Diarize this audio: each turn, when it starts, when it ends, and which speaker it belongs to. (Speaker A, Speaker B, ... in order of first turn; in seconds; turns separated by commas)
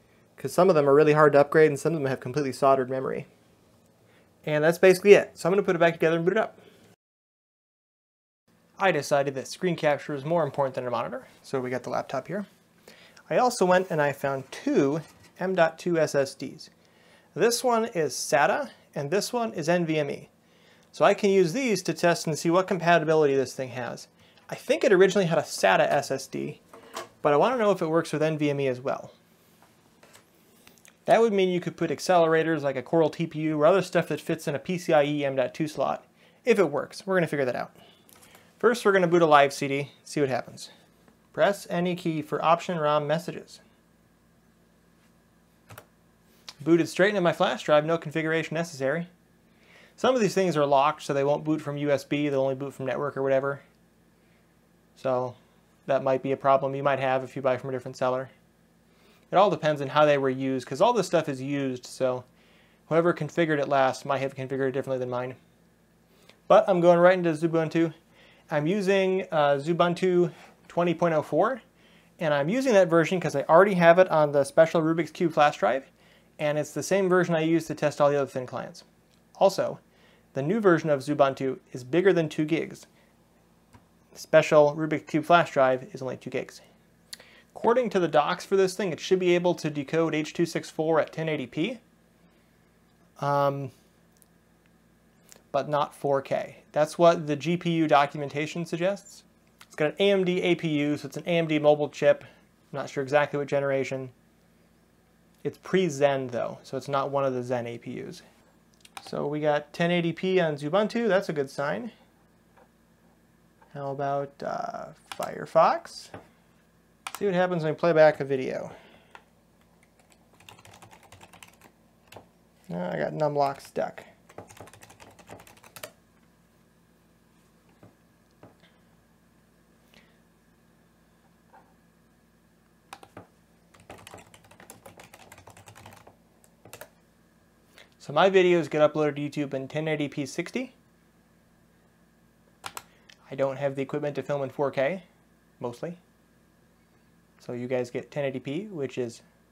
Speaker A: 0.4-3.3, Speaker A: 4.5-6.6, Speaker A: 8.8-12.5, Speaker A: 13.3-16.7, Speaker A: 17.3-20.3, Speaker A: 20.9-26.6, Speaker A: 27.2-29.1, Speaker A: 31.1-37.7, Speaker A: 38.6-40.7, Speaker A: 41.3-43.6, Speaker A: 46.6-49.1, Speaker A: 50.0-53.6, Speaker A: 55.0-58.3, Speaker A: 59.3-62.2, Speaker A: 62.9-65.4, Speaker A: 66.5-67.9, Speaker A: 68.5-71.6, Speaker A: 72.2-78.8, Speaker A: 79.3-79.8, Speaker A: 80.3-82.9, Speaker A: 84.1-86.6, Speaker A: 87.5-91.8, Speaker A: 93.2-93.7, Speaker A: 95.5-104.1, Speaker A: 105.4-108.2, Speaker A: 109.0-111.9, Speaker A: 113.7-116.1, Speaker A: 117.1-118.7, Speaker A: 122.7-124.0, Speaker A: 138.0-140.7, Speaker A: 143.3-145.0, Speaker A: 145.6-146.0, Speaker A: 147.4-149.2